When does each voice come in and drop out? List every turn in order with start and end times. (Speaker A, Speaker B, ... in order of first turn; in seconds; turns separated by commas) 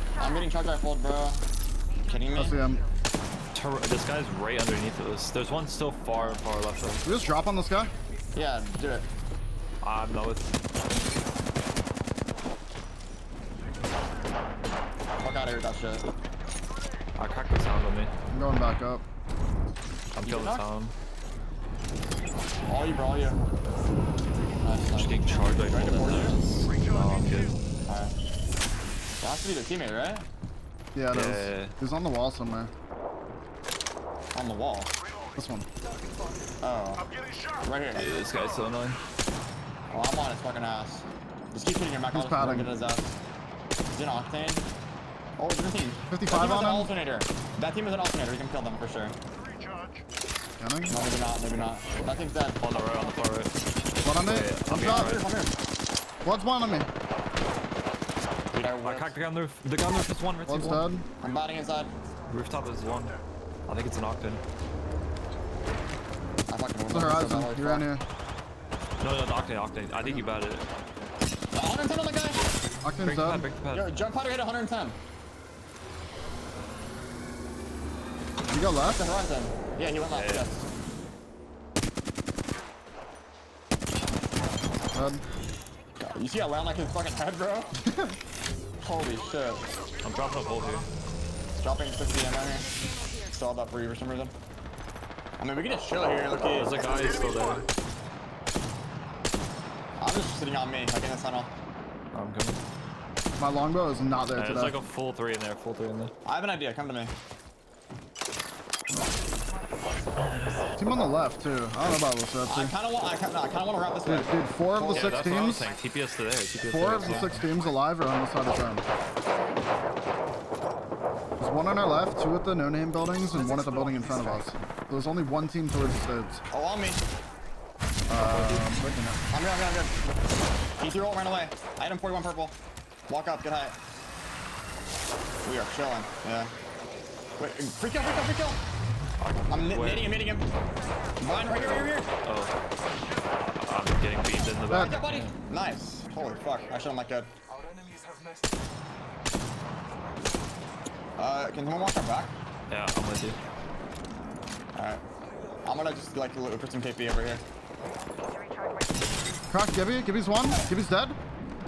Speaker A: 0.2-1.4, Speaker A: 2.0-2.7, Speaker B: 2.3-2.8, Speaker C: 3.5-7.0, Speaker A: 6.1-6.5, Speaker B: 7.0-7.9, Speaker A: 8.3-9.1, Speaker C: 9.8-10.5, Speaker A: 15.2-16.1, Speaker C: 17.2-18.1, Speaker B: 18.3-19.0, Speaker C: 20.1-20.9, Speaker A: 20.2-20.6, Speaker A: 22.6-23.4, Speaker A: 24.6-26.4, Speaker C: 24.9-27.6, Speaker A: 27.9-28.1, Speaker A: 29.2-30.3, Speaker B: 30.9-32.7, Speaker C: 31.1-31.7, Speaker A: 34.3-34.9, Speaker B: 35.4-35.7, Speaker A: 36.6-37.1, Speaker A: 37.6-38.0, Speaker C: 37.9-39.0, Speaker A: 39.9-43.2, Speaker B: 42.1-42.7, Speaker A: 43.9-44.6, Speaker A: 45.4-49.1, Speaker B: 46.1-46.9, Speaker B: 50.6-51.0, Speaker A: 50.9-53.0, Speaker C: 52.6-53.5, Speaker B: 54.0-55.2, Speaker C: 54.2-55.2, Speaker A: 54.7-55.5, Speaker B: 56.2-56.9, Speaker A: 58.5-59.1, Speaker C: 58.8-60.8, Speaker B: 60.5-61.1, Speaker A: 61.2-61.9, Speaker C: 62.3-63.1, Speaker C: 63.7-64.4, Speaker A: 66.5-67.9, Speaker B: 66.9-68.0, Speaker C: 69.0-70.7, Speaker A: 71.5-72.4, Speaker B: 72.8-73.5, Speaker C: 73.0-74.0, Speaker A: 73.7-75.0, Speaker B: 78.5-79.0, Speaker A: 78.9-80.7, Speaker C: 80.1-80.5, Speaker B: 84.9-85.2, Speaker A: 86.0-87.8, Speaker B: 87.8-88.2, Speaker A: 88.8-89.7, Speaker C: 90.0-90.9, Speaker A: 91.5-92.7, Speaker A: 93.3-94.3, Speaker A: 95.4-96.7, Speaker C: 96.4-97.7, Speaker A: 100.0-101.5, Speaker C: 102.1-102.6, Speaker B: 103.4-104.8, Speaker C: 104.3-106.1, Speaker A: 106.2-107.2, Speaker B: 110.7-112.7, Speaker A: 112.5-115.7, Speaker B: 114.0-115.7, Speaker C: 114.8-117.4, Speaker B: 116.7-118.8, Speaker B: 121.4-126.4, Speaker A: 123.4-124.3, Speaker A: 126.5-127.0, Speaker B: 128.1-129.2, Speaker A: 128.2-128.6, Speaker A: 129.3-129.9, Speaker A: 130.8-132.6, Speaker A: 133.1-133.8, Speaker A: 135.4-136.5, Speaker A: 137.4-138.6, Speaker C: 139.2-140.2, Speaker A: 139.5-140.4, Speaker A: 141.2-142.1, Speaker C: 141.5-142.5, Speaker C: 143.6-145.3, Speaker B: 144.7-145.0, Speaker A: 144.7-147.3, Speaker A: 151.2-152.3, Speaker C: 152.7-153.4, Speaker A: 154.7-155.0, Speaker A: 155.6-157.4, Speaker B: 159.5-161.2